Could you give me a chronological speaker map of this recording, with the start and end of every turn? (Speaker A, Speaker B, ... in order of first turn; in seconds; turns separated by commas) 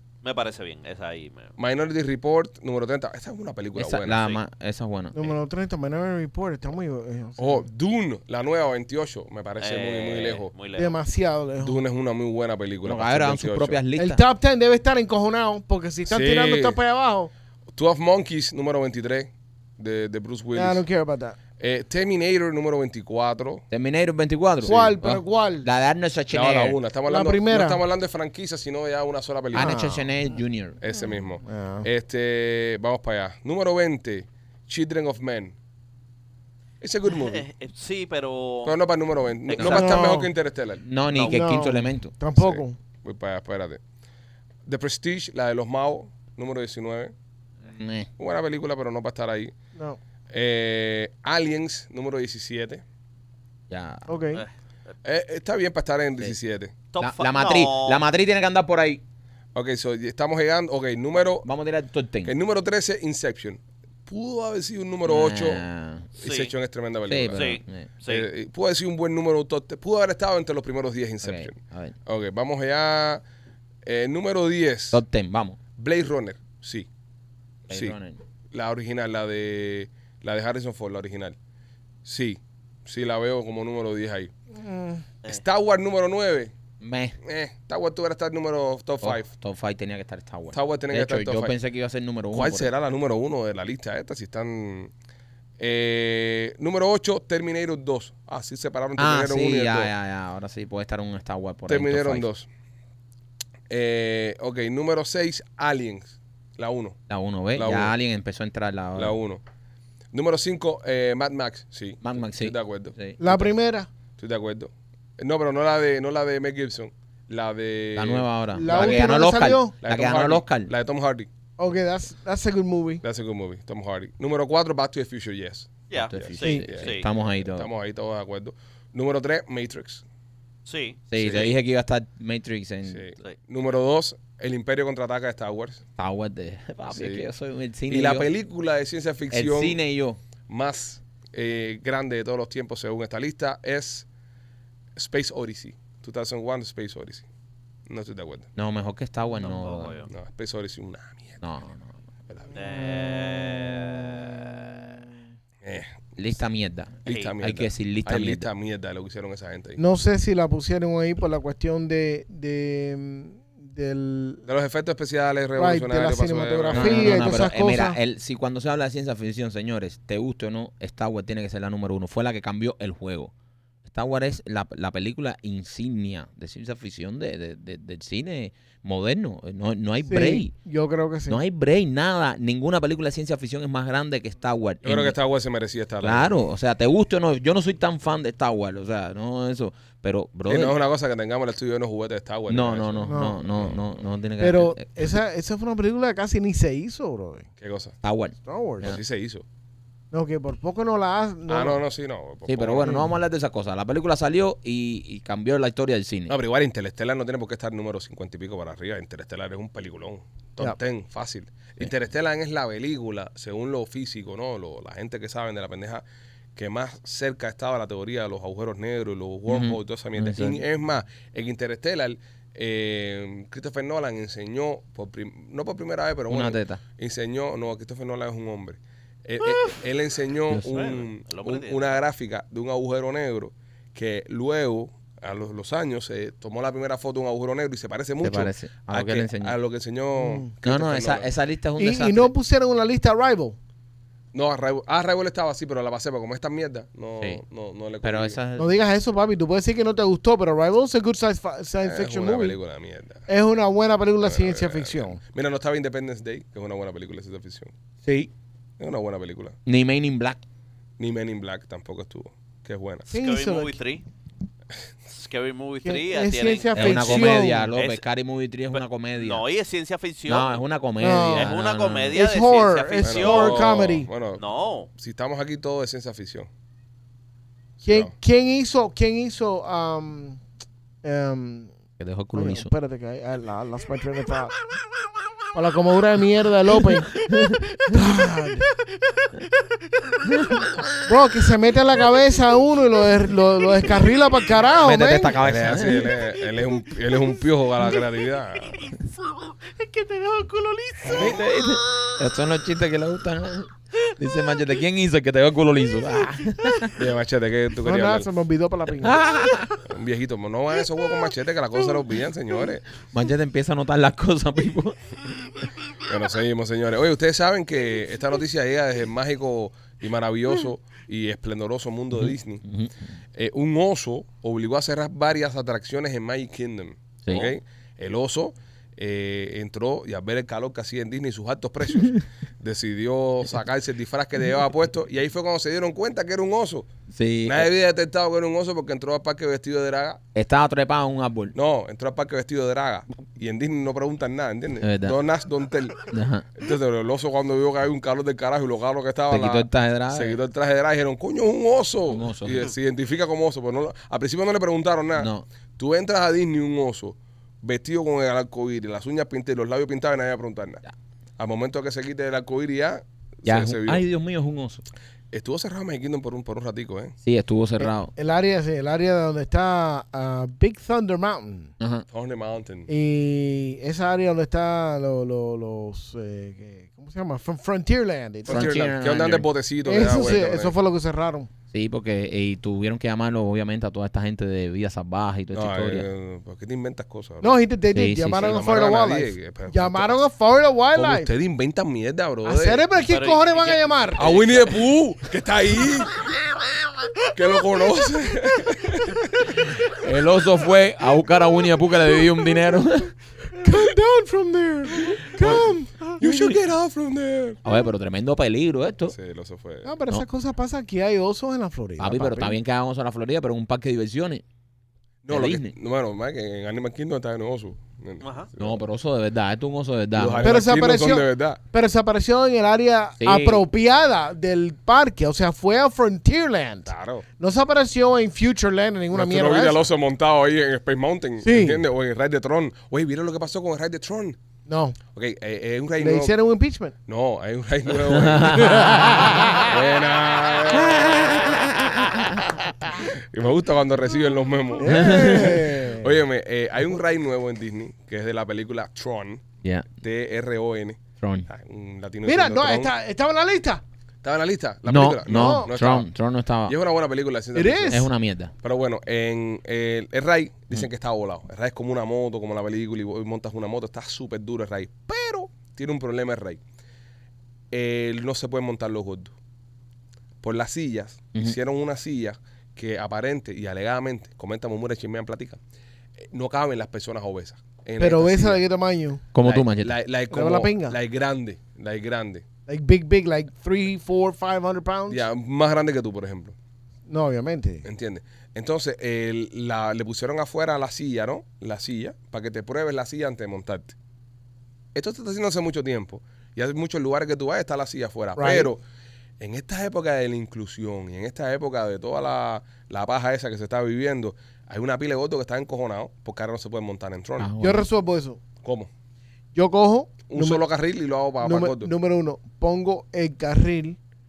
Speaker A: 0.2-1.6, Speaker B: 1.6-4.2, Speaker C: 3.8-5.3, Speaker D: 5.1-7.7, Speaker B: 7.4-10.5, Speaker A: 9.6-11.0, Speaker D: 10.8-11.8, Speaker B: 11.6-13.8, Speaker C: 12.8-14.2, Speaker D: 14.0-17.3, Speaker B: 16.1-16.8, Speaker B: 17.7-20.8, Speaker D: 20.5-21.4, Speaker B: 21.6-23.6, Speaker C: 23.7-26.8, Speaker D: 24.6-25.7, Speaker B: 26.3-29.9, Speaker D: 27.1-27.8, Speaker C: 29.5-30.8, Speaker D: 29.6-30.2, Speaker B: 30.8-35.6, Speaker D: 31.4-31.9, Speaker B: 36.8-37.5, Speaker A: 37.1-38.7, Speaker B: 38.6-40.9, Speaker A: 39.5-39.9, Speaker C: 39.6-40.0, Speaker D: 39.6-40.3, Speaker C: 40.8-42.1, Speaker A: 41.1-41.4, Speaker D: 41.3-42.8, Speaker B: 42.4-43.8, Speaker B: 44.7-47.1, Speaker C: 47.7-48.1, Speaker B: 48.2-49.5, Speaker B: 50.3-52.8, Speaker C: 53.7-54.1, Speaker D: 54.1-54.4, Speaker B: 55.0-56.7, Speaker A: 56.9-58.0, Speaker C: 57.0-59.0, Speaker B: 59.5-61.5, Speaker C: 61.4-62.3, Speaker B: 62.2-65.7, Speaker C: 65.0-66.1, Speaker B: 66.2-73.2, Speaker A: 66.2-66.5, Speaker C: 67.1-67.9, Speaker A: 67.3-68.3, Speaker C: 71.2-72.0, Speaker B: 73.8-75.0, Speaker C: 74.9-75.6, Speaker B: 75.8-76.9, Speaker C: 77.7-78.2, Speaker B: 77.7-78.0, Speaker B: 78.5-81.4, Speaker B: 82.0-84.3, Speaker D: 84.5-85.0, Speaker B: 85.3-86.5, Speaker C: 86.8-87.2, Speaker B: 87.2-89.3, Speaker C: 89.0-92.7, Speaker B: 90.5-91.5, Speaker B: 92.3-94.9, Speaker B: 95.6-99.9, Speaker C: 99.0-102.3, Speaker B: 101.7-102.5, Speaker B: 103.7-107.0, Speaker C: 107.1-109.2, Speaker B: 107.5-107.9, Speaker B: 109.0-109.4, Speaker B: 110.1-113.0, Speaker C: 112.0-113.5, Speaker D: 113.2-113.9, Speaker B: 114.2-119.1, Speaker C: 118.0-120.7, Speaker D: 118.5-119.7, Speaker B: 119.8-121.3, Speaker D: 121.6-123.0, Speaker B: 123.0-130.0, Speaker A: 125.9-127.1, Speaker C: 125.9-127.7, Speaker D: 126.4-126.7, Speaker A: 130.7-131.6, Speaker C: 131.1-133.1, Speaker B: 131.2-131.5, Speaker B: 132.9-135.8, Speaker C: 136.0-138.3, Speaker B: 136.9-137.3, Speaker B: 137.9-139.8, Speaker C: 139.3-140.2, Speaker B: 140.5-144.1, Speaker B: 145.0-147.3, Speaker B: 147.9-148.5, Speaker C: 148.6-150.1, Speaker A: 149.4-150.1, Speaker B: 150.1-151.4, Speaker C: 151.4-151.9, Speaker B: 152.3-152.6, Speaker A: 152.5-155.0, Speaker B: 155.6-156.0, Speaker C: 156.2-158.5, Speaker B: 157.1-159.8, Speaker A: 157.1-157.3, Speaker D: 159.8-164.4, Speaker B: 164.4-167.4, Speaker D: 165.6-168.0, Speaker C: 166.7-173.3, Speaker C: 173.8-180.5, Speaker D: 180.1-181.4, Speaker C: 181.3-185.2, Speaker B: 184.8-186.4, Speaker C: 186.0-190.8, Speaker B: 190.5-193.8, Speaker C: 192.5-195.2, Speaker D: 193.1-193.4, Speaker D: 194.4-197.5, Speaker B: 197.6-198.0, Speaker C: 198.0-199.0, Speaker D: 198.5-199.0, Speaker B: 198.8-199.4, Speaker D: 200.1-201.8, Speaker B: 201.5-203.0, Speaker C: 202.5-206.3, Speaker D: 202.8-203.2, Speaker B: 206.3-216.0, Speaker B: 216.6-241.3, Speaker C: 219.5-220.6, Speaker C: 226.3-226.8, Speaker C: 230.5-230.9, Speaker A: 230.7-232.0, Speaker C: 238.2-239.6, Speaker D: 240.2-240.5, Speaker C: 240.6-242.3, Speaker D: 241.8-243.6, Speaker B: 244.3-248.4, Speaker C: 248.0-248.7, Speaker D: 248.6-252.6, Speaker B: 251.8-253.3, Speaker D: 253.3-255.2, Speaker B: 254.2-257.7, Speaker D: 258.0-258.3, Speaker B: 258.8-259.6, Speaker C: 259.7-260.4, Speaker B: 261.0-263.1, Speaker D: 263.1-263.8, Speaker A: 263.1-264.0, Speaker A: 265.1-268.0, Speaker D: 265.8-267.7, Speaker C: 266.8-269.4, Speaker A: 268.7-270.6, Speaker C: 270.3-272.2, Speaker D: 271.0-271.5, Speaker A: 271.3-273.8, Speaker D: 272.1-274.1, Speaker B: 273.0-274.4, Speaker A: 274.4-274.9, Speaker B: 274.9-276.5, Speaker B: 277.8-278.1, Speaker D: 277.9-280.4, Speaker D: 281.0-281.8, Speaker C: 282.0-282.7, Speaker D: 282.3-284.6, Speaker D: 285.5-288.7, Speaker C: 287.4-288.0, Speaker C: 290.3-290.6, Speaker D: 291.1-295.4, Speaker C: 294.8-296.2, Speaker B: 295.4-298.9, Speaker A: 299.8-300.9, Speaker B: 301.1-301.4, Speaker C: 301.1-307.0, Speaker B: 307.0-308.3, Speaker D: 307.8-309.3, Speaker C: 309.0-309.8, Speaker B: 309.8-312.9, Speaker C: 313.1-315.1, Speaker B: 316.1-322.6, Speaker C: 322.1-323.1, Speaker B: 323.4-336.9, Speaker C: 337.1-337.7, Speaker B: 337.4-340.2, Speaker C: 340.4-341.5, Speaker B: 341.5-346.0, Speaker C: 344.8-345.2, Speaker C: 346.1-346.5, Speaker B: 346.6-360.8, Speaker C: 349.3-350.4, Speaker C: 352.1-352.7, Speaker C: 355.2-355.5, Speaker B: 361.4-364.1, Speaker C: 363.5-364.9, Speaker B: 365.3-367.1, Speaker C: 367.2-368.1, Speaker D: 367.8-371.7, Speaker C: 371.8-372.1, Speaker B: 372.1-372.9, Speaker D: 372.9-378.8, Speaker B: 378.4-380.7, Speaker C: 378.5-379.5, Speaker D: 379.9-381.5, Speaker C: 381.7-386.1, Speaker B: 385.5-387.6, Speaker D: 387.4-391.3, Speaker C: 387.9-388.6, Speaker B: 388.4-390.2, Speaker B: 390.9-392.8, Speaker D: 392.4-394.3, Speaker A: 393.0-394.8, Speaker B: 394.2-396.1, Speaker B: 397.3-399.7, Speaker C: 399.6-403.1, Speaker D: 403.6-406.2, Speaker B: 405.4-407.6, Speaker C: 406.2-406.5, Speaker C: 407.6-409.1, Speaker B: 409.1-409.9, Speaker D: 409.9-412.6, Speaker C: 412.0-414.4, Speaker B: 415.2-418.8, Speaker C: 415.3-415.7, Speaker A: 418.2-418.5, Speaker C: 418.6-420.6, Speaker B: 420.1-421.6, Speaker D: 420.4-429.8, Speaker C: 423.2-423.7, Speaker B: 426.9-427.3, Speaker B: 429.1-434.4, Speaker D: 431.4-431.8, Speaker D: 434.7-435.0, Speaker B: 435.1-436.4, Speaker D: 436.0-436.9, Speaker B: 437.1-439.0, Speaker C: 438.1-439.1, Speaker D: 438.5-439.7, Speaker B: 439.6-441.7, Speaker C: 440.9-442.5, Speaker B: 443.0-449.4, Speaker D: 444.8-446.2, Speaker C: 444.8-445.6, Speaker C: 449.6-449.9, Speaker B: 450.0-452.9, Speaker C: 451.2-451.5, Speaker D: 452.2-453.8, Speaker B: 454.2-456.1, Speaker C: 454.9-456.8, Speaker D: 455.3-455.7, Speaker B: 456.7-458.1, Speaker D: 457.6-458.1, Speaker C: 457.9-458.5, Speaker B: 458.6-466.6, Speaker B: 467.7-469.3, Speaker B: 470.4-475.6, Speaker B: 476.2-478.6, Speaker D: 478.0-479.2, Speaker C: 479.3-480.0, Speaker B: 479.4-482.4, Speaker D: 480.3-481.0, Speaker D: 482.7-485.2, Speaker B: 485.1-486.6, Speaker D: 487.1-487.9, Speaker B: 487.8-493.9, Speaker B: 494.9-498.8, Speaker D: 498.4-498.7, Speaker B: 499.4-507.5, Speaker C: 507.4-507.9, Speaker D: 507.6-508.4, Speaker B: 508.6-508.9, Speaker D: 509.6-510.6, Speaker B: 510.3-511.9, Speaker D: 511.4-514.0